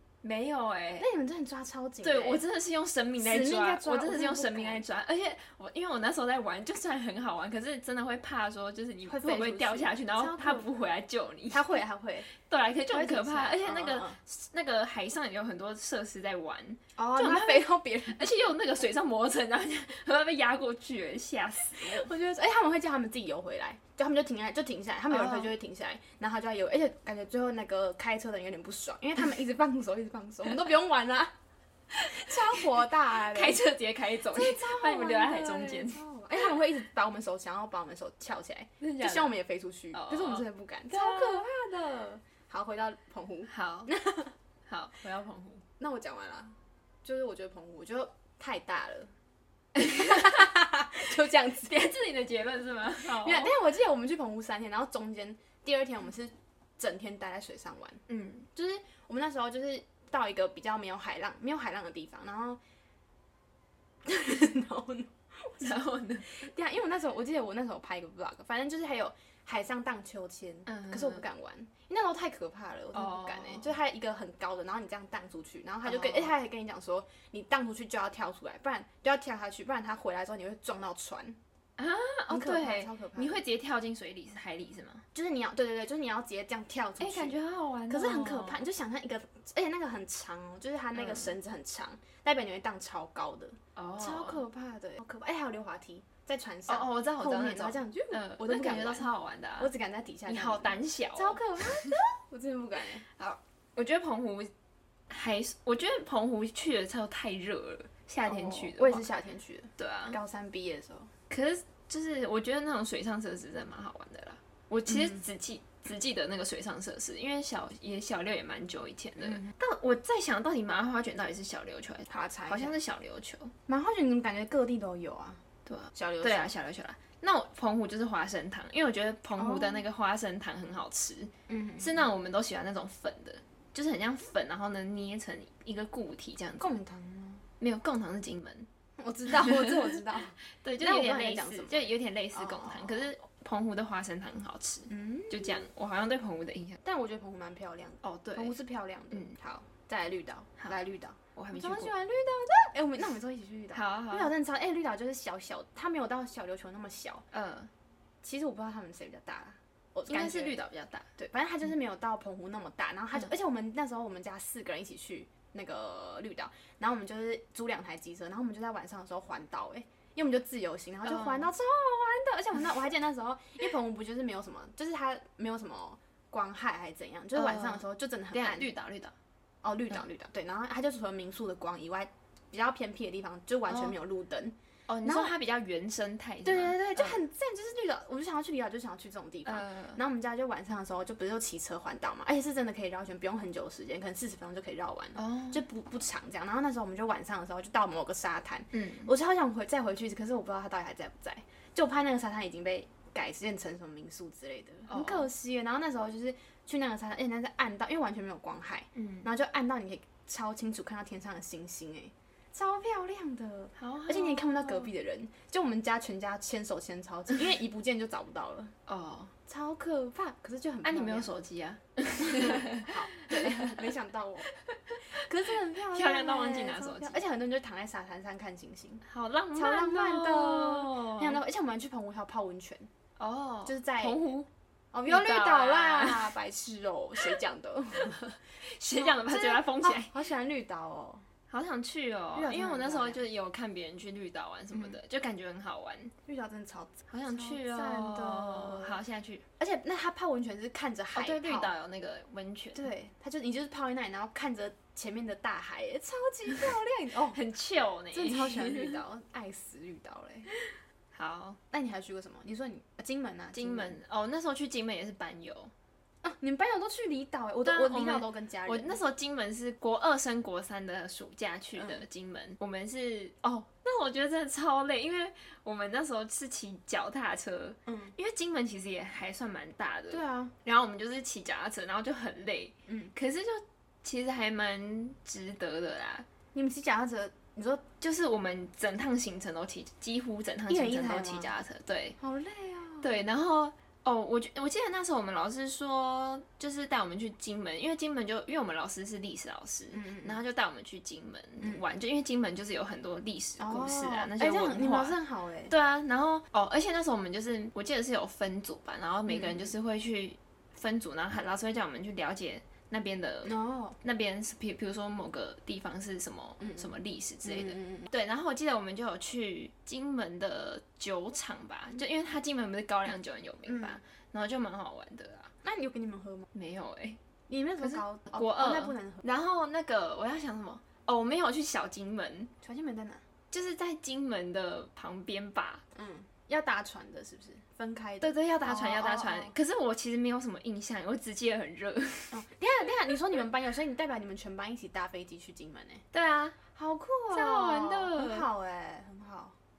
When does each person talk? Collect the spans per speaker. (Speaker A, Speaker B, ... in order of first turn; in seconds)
Speaker A: 0.2-1.1, 2.0-11.8, 12.3-22.1, 25.1-25.5, 32.1-36.0, 38.8-39.3, 39.9-41.5, 43.5-43.9, 44.7-45.6, 49.9-50.3, 51.6-53.5, 58.1-58.5, 65.6-66.3, 70.7-71.2, 72.9-73.7, 75.8-76.3, 81.8-85.0, 87.0-88.6, 90.9-91.4, 93.8-94.4, 96.7-99.7, 100.3-101.9, 103.2-104.5, 105.1-109.0, 109.8-110.2, 111.3-123.5, 125.7-136.8, 137.6-138.7, 139.3-139.9, 140.6-146.8, 148.0-148.6, 151.3-151.9, 153.7-154.3, 157.3-157.7, 160.1-161.1, 171.0-171.5, 177.3-179.1, 183.7-183.9, 184.9-187.2, 189.4-190.0, 195.2-195.6, 198.7-199.1, 204.9-205.3, 208.9-209.3, 213.8-214.9, 218.9-219.3, 220.8-223.9, 224.5-225.2, 225.7-227.2, 229.0-231.4, 233.2-234.5, 235.1-236.3, 238.1-240.1, 241.5-246.1, 247.1-249.4, 251.1-252.9, 257.3-259.0, 261.1-261.6, 263.5-265.7, 267.6-286.2, 288.0-292.2, 293.0-305.2, 305.7-325.5, 326.5-327.2, 327.8-332.5, 333.5-335.8, 338.2-342.4, 346.1-346.6, 347.3-348.5
Speaker B: 1.0-2.4, 3.2-4.8, 9.1-10.7, 11.5-12.3, 12.9-14.2, 17.0-18.3, 21.8-31.3, 32.0-33.6, 34.3-44.3, 45.8-49.1, 49.8-51.9, 53.0-58.0, 58.5-62.6, 64.0-81.4, 82.3-83.4, 85.1-87.3, 87.9-103.0, 108.2-111.1, 114.9-115.2, 119.2-119.5, 122.1-122.8, 123.7-125.4, 125.9-126.5, 129.4-129.8, 131.5-132.1, 136.6-137.4, 139.0-143.1, 144.9-145.6, 146.8-157.2, 158.2-160.6, 161.2-178.7, 179.6-185.3, 186.4-218.7, 219.5-221.3, 222.2-224.5, 225.1-229.0, 229.5-232.9, 233.6-234.2, 234.9-238.2, 238.9-241.2, 242.3-243.2, 244.7-245.0, 246.3-249.0, 249.6-251.7, 252.7-257.4, 258.1-260.5, 261.7-264.0, 266.2-269.0, 271.7-272.0, 277.9-278.1, 280.1-280.5, 282.9-283.1, 286.5-287.8, 290.7-291.5, 292.2-293.1, 299.9-300.4, 303.6-305.7, 309.3-309.7, 313.4-314.0, 316.6-316.9, 317.4-318.1, 323.6-324.0, 325.6-326.5, 327.5-329.2, 332.6-333.2, 335.9-339.5, 342.3-346.0, 346.7-349.5